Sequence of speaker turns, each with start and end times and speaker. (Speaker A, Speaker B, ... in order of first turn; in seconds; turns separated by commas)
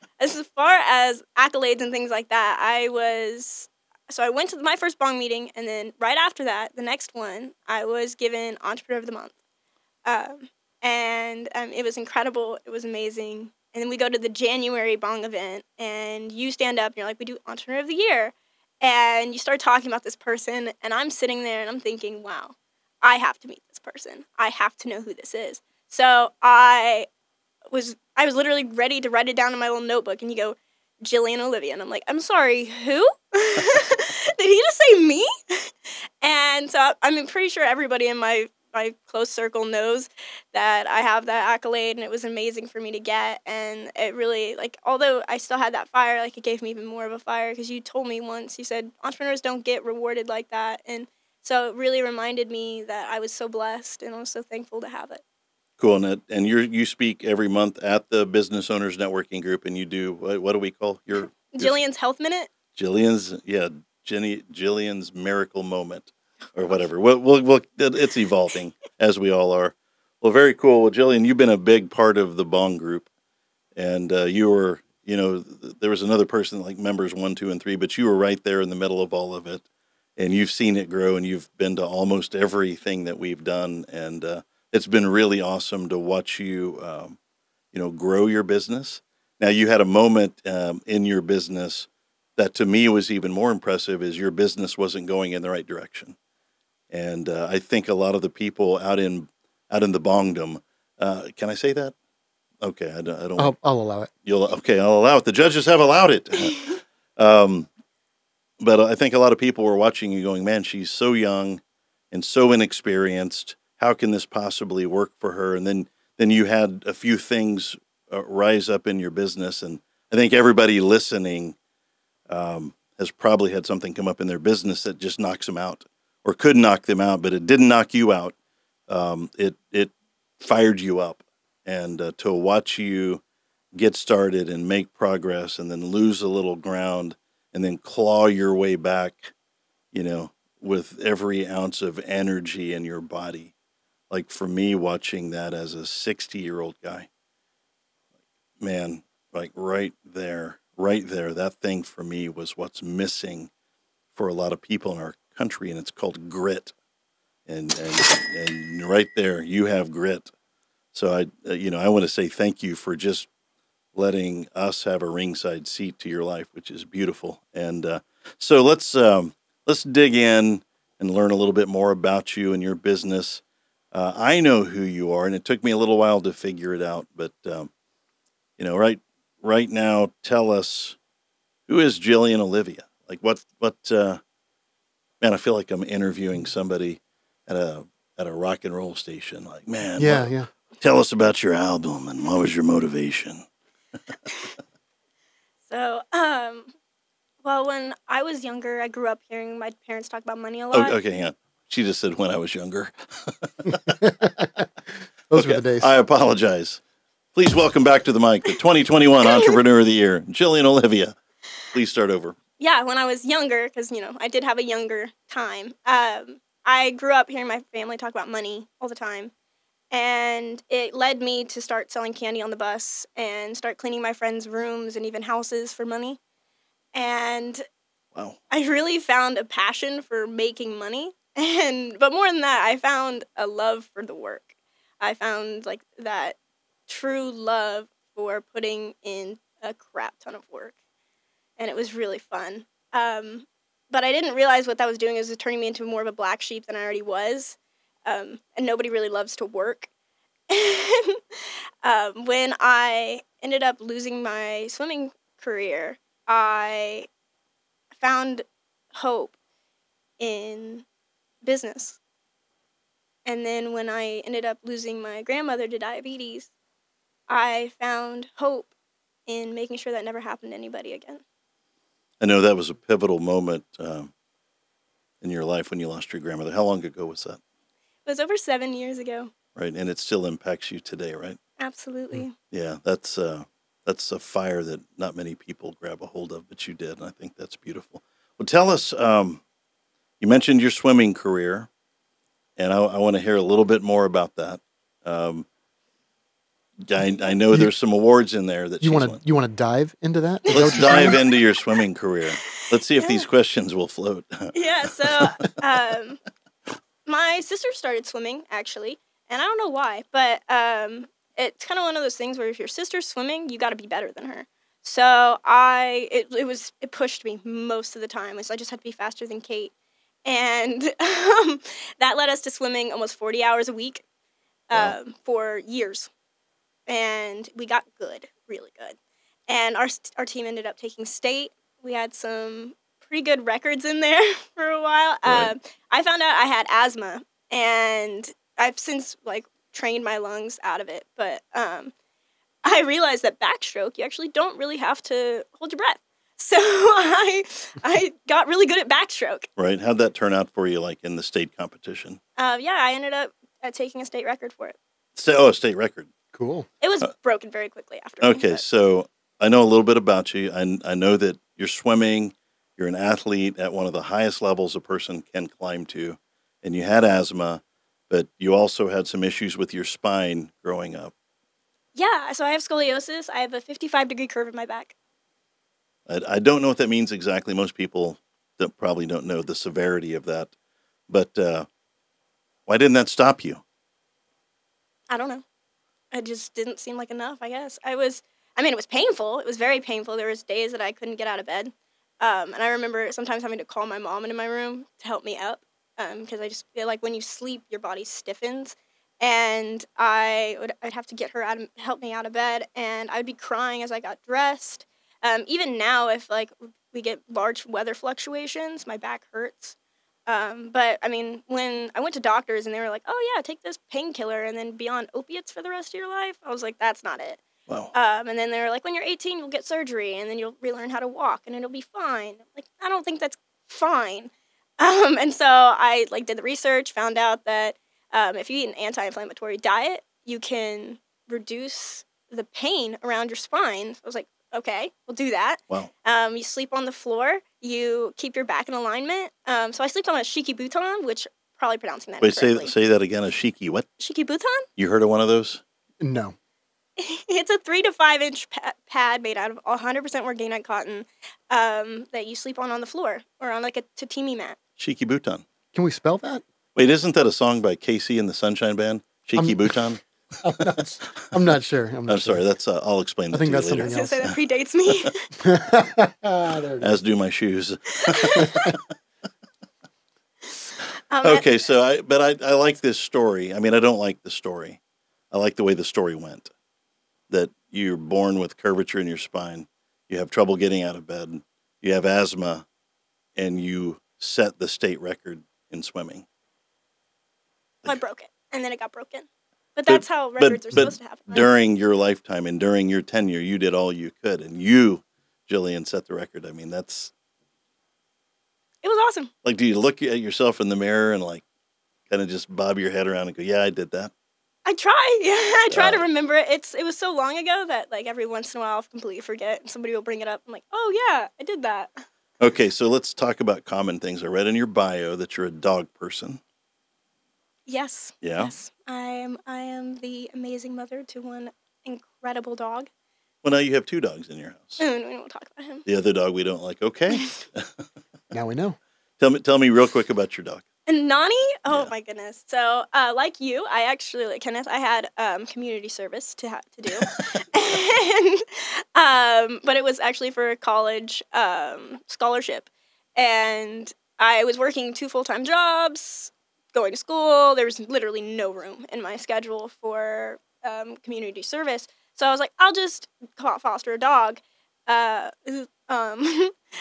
Speaker A: 0.2-9.3, Speaker A: 10.1-27.1, Speaker A: 27.7-55.2, Speaker B: 55.8-61.8, Speaker A: 61.5-62.5, Speaker B: 62.7-73.1, Speaker B: 73.7-79.6, Speaker B: 80.2-87.2, Speaker B: 87.7-96.2, Speaker B: 96.9-101.9, Speaker B: 102.6-103.5, Speaker C: 103.4-104.1, Speaker B: 104.2-107.7, Speaker B: 108.6-121.5, Speaker B: 122.3-128.3, Speaker B: 128.9-133.2, Speaker B: 133.7-139.3, Speaker B: 139.9-143.5, Speaker B: 144.1-147.1, Speaker B: 148.6-153.5, Speaker B: 154.1-156.7, Speaker B: 157.5-160.3, Speaker B: 160.9-163.3, Speaker B: 163.9-177.7, Speaker B: 178.6-181.0, Speaker B: 181.7-184.2, Speaker B: 185.2-193.4, Speaker C: 190.0-190.5, Speaker A: 195.7-196.7, Speaker A: 197.4-200.9, Speaker B: 200.7-204.1, Speaker C: 205.3-205.9, Speaker B: 205.3-206.8, Speaker B: 207.3-211.2, Speaker B: 211.7-212.3, Speaker A: 212.6-219.3, Speaker A: 219.9-226.2, Speaker A: 226.9-227.6, Speaker A: 228.5-236.3, Speaker A: 236.9-240.7, Speaker A: 241.6-249.9, Speaker A: 250.5-251.2, Speaker A: 251.8-257.1, Speaker A: 258.0-259.3, Speaker A: 260.2-260.8, Speaker A: 261.4-262.0, Speaker A: 263.2-266.5, Speaker A: 267.3-268.7, Speaker A: 269.3-271.2, Speaker B: 272.2-274.1, Speaker B: 275.2-277.4, Speaker A: 278.1-279.3, Speaker B: 279.6-281.4, Speaker A: 281.6-282.3, Speaker B: 282.5-289.4, Speaker B: 290.2-291.7, Speaker B: 292.6-295.4, Speaker B: 296.8-299.2, Speaker C: 298.8-301.2, Speaker A: 300.5-301.4, Speaker B: 300.5-304.6, Speaker A: 302.4-303.2, Speaker A: 304.5-306.2, Speaker B: 305.1-305.4, Speaker A: 307.1-319.7, Speaker A: 320.2-324.0, Speaker A: 324.7-326.1, Speaker A: 326.9-328.9, Speaker A: 329.5-341.9, Speaker B: 335.2-335.5, Speaker A: 342.6-349.5, Speaker B: 349.6-352.2, Speaker A: 352.4-354.8, Speaker B: 355.1-356.1, Speaker C: 356.3-356.7, Speaker A: 356.8-358.6, Speaker B: 358.2-371.1, Speaker A: 371.9-374.9, Speaker B: 376.1-380.5, Speaker B: 381.1-381.7, Speaker B: 382.7-383.6, Speaker A: 385.1-385.4, Speaker A: 386.1-409.8, Speaker A: 410.3-417.4, Speaker B: 417.7-417.9, Speaker A: 417.9-442.7, Speaker B: 442.2-443.9, Speaker A: 444.0-444.7, Speaker B: 444.8-445.6, Speaker C: 446.0-446.4, Speaker A: 447.0-454.6, Speaker B: 454.8-455.4, Speaker C: 455.7-456.4, Speaker B: 456.7-460.0, Speaker C: 459.4-459.8, Speaker C: 460.4-462.4, Speaker B: 462.1-464.3, Speaker C: 463.3-464.2, Speaker A: 463.9-465.3, Speaker C: 465.4-466.9, Speaker B: 466.8-468.6, Speaker A: 467.9-468.7, Speaker A: 470.5-471.5, Speaker B: 471.2-474.8, Speaker B: 475.3-476.5, Speaker B: 477.3-482.6, Speaker B: 483.4-486.2, Speaker A: 487.8-491.5, Speaker B: 489.9-497.1, Speaker A: 498.8-499.3, Speaker B: 499.4-501.4, Speaker B: 502.1-504.1, Speaker A: 504.6-512.0, Speaker B: 505.7-506.0, Speaker B: 512.4-516.4, Speaker A: 517.7-522.9, Speaker B: 518.2-518.5, Speaker B: 523.4-524.8, Speaker A: 524.8-525.8, Speaker B: 525.8-527.9, Speaker A: 527.1-527.4, Speaker C: 528.3-528.8, Speaker B: 529.2-530.6, Speaker A: 530.9-556.5